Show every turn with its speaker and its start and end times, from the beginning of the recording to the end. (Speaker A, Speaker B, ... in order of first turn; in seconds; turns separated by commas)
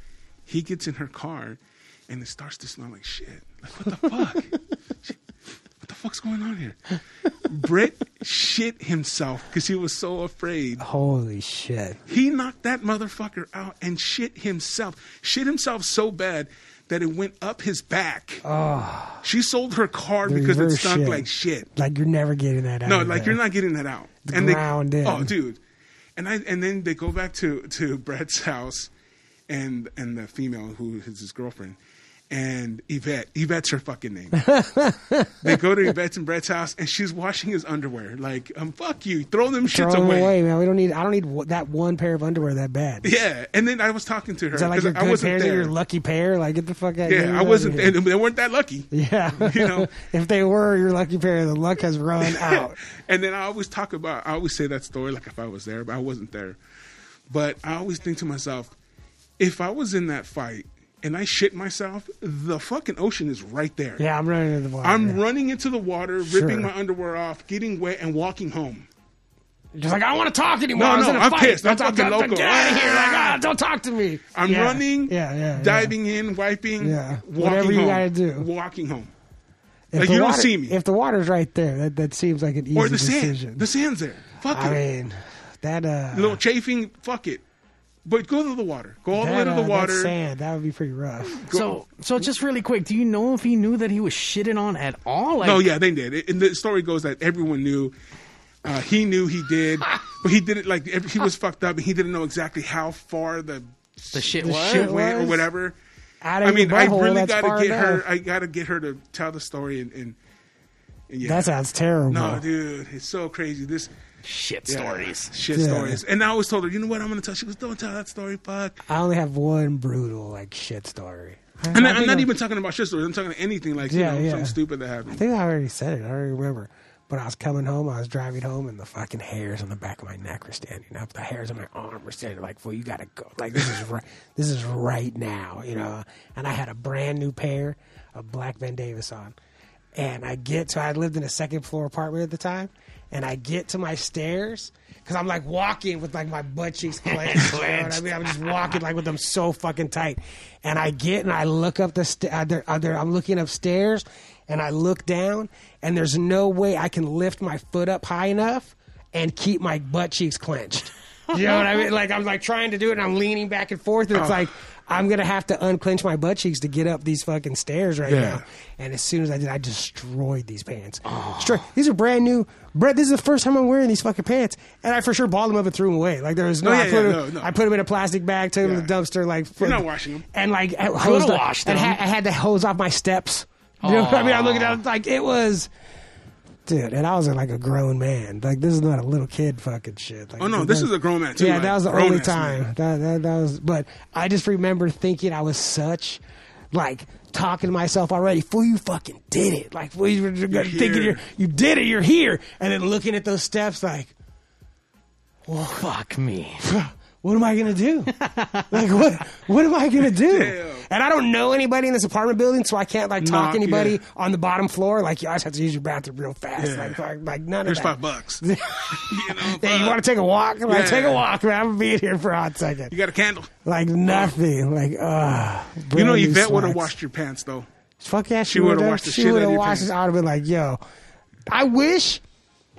Speaker A: 0.5-5.2, Speaker A: 5.8-10.8, Speaker B: 10.8-12.0, Speaker A: 12.1-18.4, Speaker B: 18.4-19.2, Speaker A: 19.2-21.7, Speaker B: 20.2-23.4, Speaker A: 22.8-25.6, Speaker B: 24.3-25.3, Speaker A: 26.1-28.9, Speaker A: 29.5-31.8, Speaker A: 32.3-34.4, Speaker B: 34.4-35.6, Speaker A: 35.4-40.3, Speaker B: 39.7-43.1, Speaker A: 43.0-45.7, Speaker B: 44.5-48.0, Speaker A: 47.0-49.9, Speaker B: 48.9-52.8, Speaker A: 52.2-56.6, Speaker A: 57.3-58.7, Speaker A: 59.4-64.0, Speaker B: 64.0-65.2, Speaker A: 64.8-68.9, Speaker B: 66.2-66.7, Speaker B: 69.7-75.9, Speaker A: 70.7-73.4, Speaker A: 74.3-79.1, Speaker B: 76.8-78.5, Speaker B: 79.9-83.6, Speaker A: 79.9-80.8, Speaker A: 82.7-84.8, Speaker B: 84.5-86.4, Speaker A: 86.1-87.4, Speaker A: 88.0-90.1, Speaker B: 89.1-91.4, Speaker A: 91.3-91.8, Speaker C: 91.5-95.6, Speaker A: 95.4-97.9, Speaker A: 98.6-105.8, Speaker C: 104.1-104.9, Speaker B: 104.4-105.5, Speaker B: 106.2-108.0, Speaker A: 106.4-110.2, Speaker A: 111.1-111.5, Speaker B: 111.2-112.4, Speaker A: 112.1-113.9, Speaker C: 114.2-115.3, Speaker A: 114.7-118.8, Speaker B: 115.5-116.0, Speaker B: 118.9-122.3, Speaker A: 121.7-125.2, Speaker B: 123.8-124.5, Speaker B: 125.1-139.3, Speaker B: 139.9-185.7, Speaker C: 147.3-148.1, Speaker A: 164.1-164.4, Speaker A: 168.0-168.4, Speaker C: 171.0-171.6, Speaker A: 176.6-177.5, Speaker A: 178.6-178.9, Speaker A: 179.6-180.2, Speaker C: 180.9-182.0, Speaker C: 183.8-184.8, Speaker B: 186.7-196.2, Speaker A: 190.4-192.7, Speaker B: 196.7-204.1, Speaker A: 200.5-201.2, Speaker B: 205.4-205.9, Speaker C: 205.7-206.7, Speaker B: 206.6-208.1, Speaker C: 208.2-208.7, Speaker B: 208.7-222.9, Speaker A: 210.2-210.8, Speaker A: 213.2-214.0, Speaker A: 216.6-217.0, Speaker A: 217.6-220.0, Speaker A: 220.7-221.2, Speaker A: 222.9-223.5, Speaker B: 223.6-226.9, Speaker A: 225.9-227.7, Speaker B: 228.0-230.8, Speaker A: 228.5-229.9, Speaker B: 231.5-232.2